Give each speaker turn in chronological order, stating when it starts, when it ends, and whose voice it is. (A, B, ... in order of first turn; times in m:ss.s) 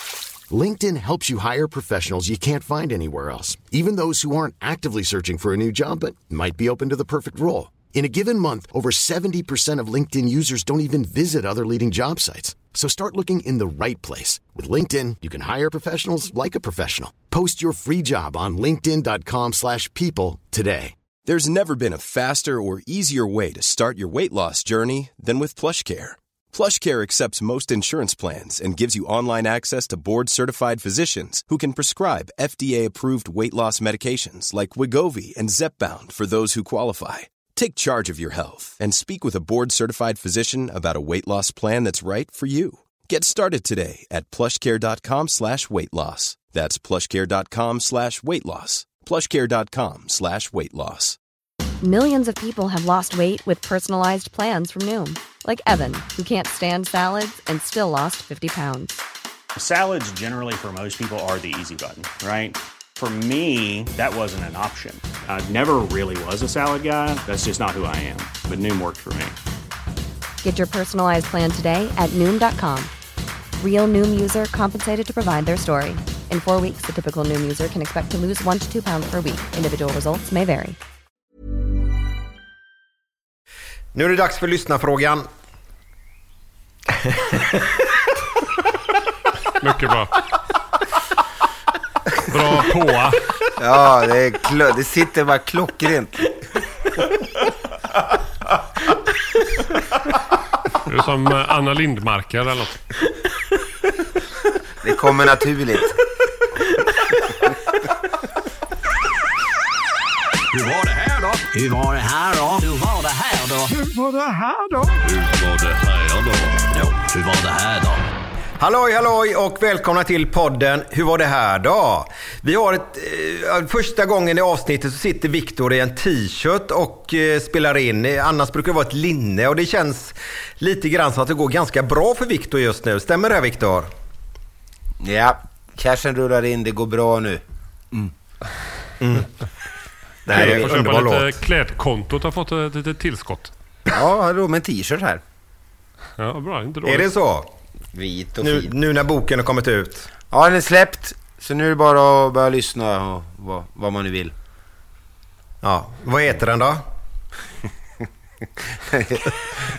0:00.5-0:21.0 A
0:21.2-0:51.2 B
0:51.8-0:59.0 C
0:59.6-1:09.4 D
1:10.4-1:12.9 C
1:13.6-1:20.8 C
1:23.9-1:25.3 E
1:27.0-1:27.9 E
1:29.6-1:30.2 F
1:32.3-1:33.2 F
1:33.6-1:36.3 G
1:40.9-1:42.8 F
1:44.8-1:46.0 G
1:50.5-1:53.8 H
1:54.9-1:58.0 H
1:58.6-2:13.9 E
2:15.0-2:17.4 G
2:19.0-2:19.3 E
2:20.3-2:21.4 E
2:20.3-2:23.5 F
2:23.9-2:25.2 G
2:26.2-2:27.1 F
2:26.8-2:27.5 E
2:27.9-2:28.7 G
2:28.4-2:30.1 E
2:30.3-2:34.3 G
2:35.6-2:36.8 E
2:38.8-2:39.4 G